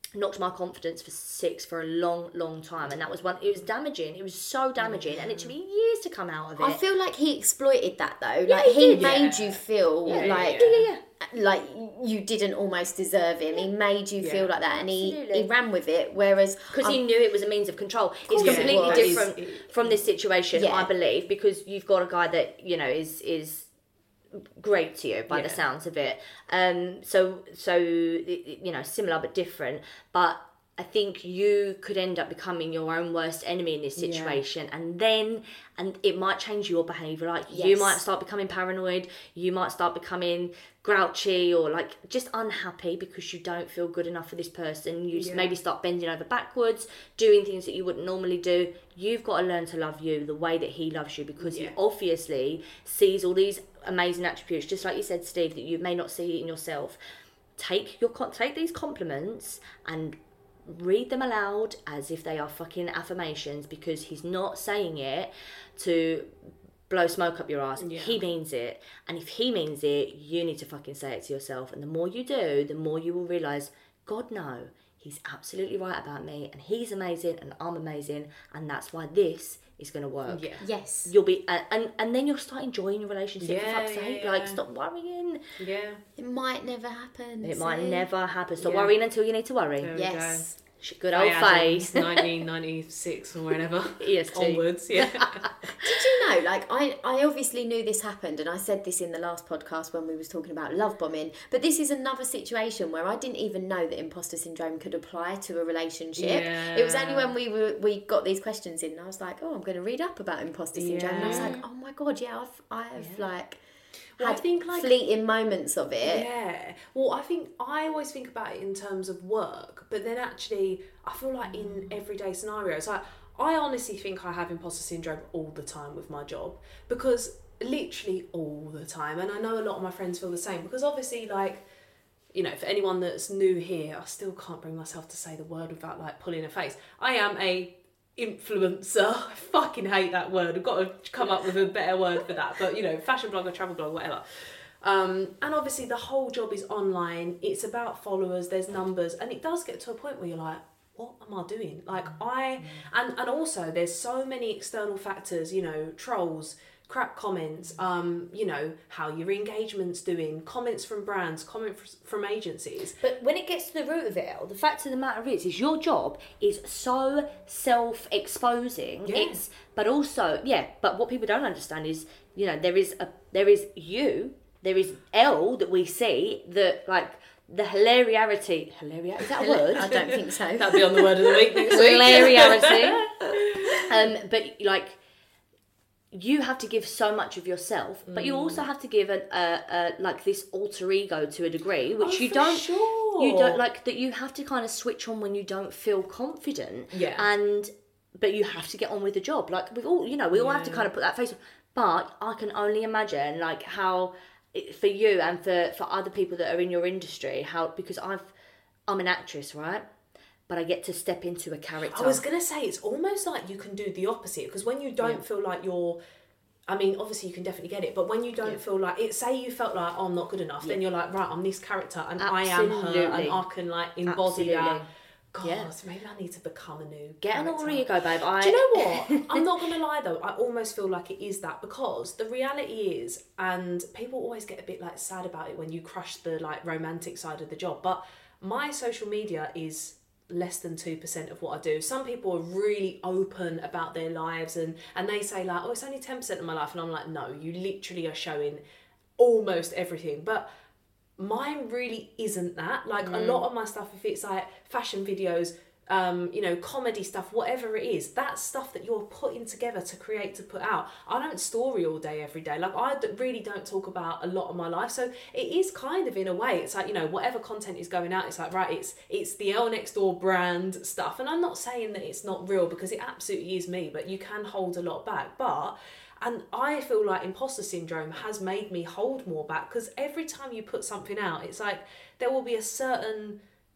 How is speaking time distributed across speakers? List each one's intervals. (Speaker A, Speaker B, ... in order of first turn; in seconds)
Speaker A: 0.1-6.8, 8.5-9.3, 10.1-11.0, 14.8-15.5, 16.7-23.7, 24.3-57.0, 57.6-66.4, 66.9-85.4, 87.4-90.0, 90.8-92.3, 94.0-95.7, 111.2-111.6, 121.6-121.9, 163.0-180.1, 181.6-185.0, 186.1-208.3, 208.9-209.8, 210.5-212.2, 222.2-223.4, 224.1-224.9, 225.4-225.7, 227.2-229.4, 253.0-253.4
Speaker B: 4.8-5.5, 8.9-10.9, 14.2-14.5, 18.4-19.9, 25.3-25.6, 34.0-34.4, 45.1-45.5, 51.4-51.8, 67.8-68.2, 80.3-80.6, 83.4-84.6, 85.6-86.0, 88.6-88.9, 89.8-90.5, 91.1-95.5, 106.2-107.3, 110.7-111.6, 114.2-114.9, 116.0-131.6, 132.3-163.0, 169.1-169.4, 179.7-183.9, 188.1-188.7, 192.0-193.6, 196.9-197.3, 200.3-200.9, 211.9-216.0, 216.7-248.6, 249.2-250.5, 251.2-283.4
Speaker C: 6.6-17.0, 18.3-19.2, 20.5-20.9, 37.5-38.0, 80.6-81.1, 86.2-88.1, 89.9-90.5, 95.8-113.6, 114.2-116.3, 179.3-181.6